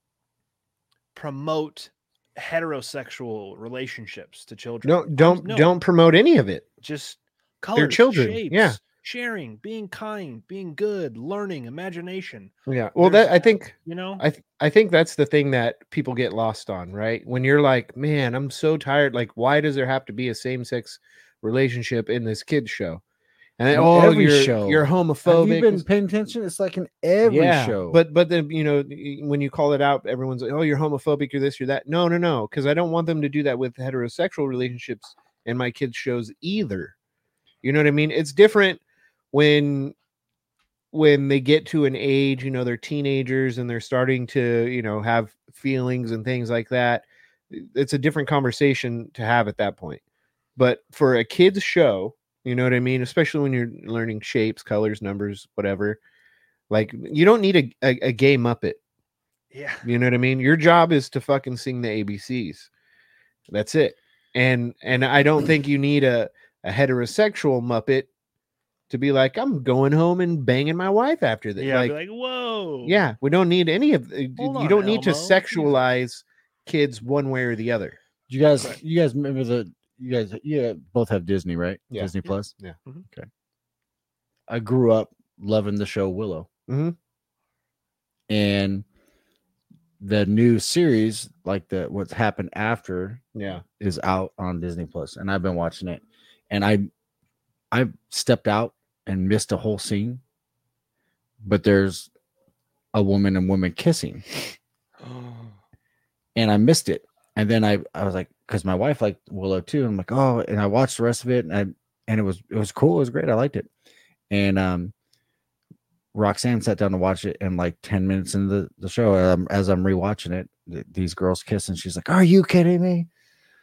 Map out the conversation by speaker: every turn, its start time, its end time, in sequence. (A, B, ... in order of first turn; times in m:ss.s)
0:01.1-0:05.8 A
0:04.8-0:06.7 B
0:06.8-0:14.2 A
0:07.8-0:08.8 B
0:12.7-0:23.0 B
0:23.6-0:25.9 B
0:23.7-0:28.0 C
0:27.2-0:36.9 B
0:37.6-0:38.8 B
0:39.3-0:39.9 B
0:40.9-0:50.0 B
0:50.6-0:56.0 B
0:56.7-0:58.8 B
0:59.5-0:59.9 A
0:59.8-1:02.7 B
1:03.5-1:08.1 B
1:08.9-1:11.9 B
1:11.6-1:13.0 A
1:12.8-1:18.0 B
1:14.4-1:15.8 A
1:18.3-1:22.5 C
1:21.9-1:22.8 B
1:24.5-1:26.5 C
1:26.7-1:27.0 B
1:28.3-1:28.8 C
1:30.0-1:36.9 C
1:33.3-1:33.6 B
1:37.7-1:40.2 C
1:41.4-1:42.1 C
1:42.9-1:44.2 C
1:46.4-1:53.7 C
1:54.3-1:54.9 C
1:56.1-2:03.1 C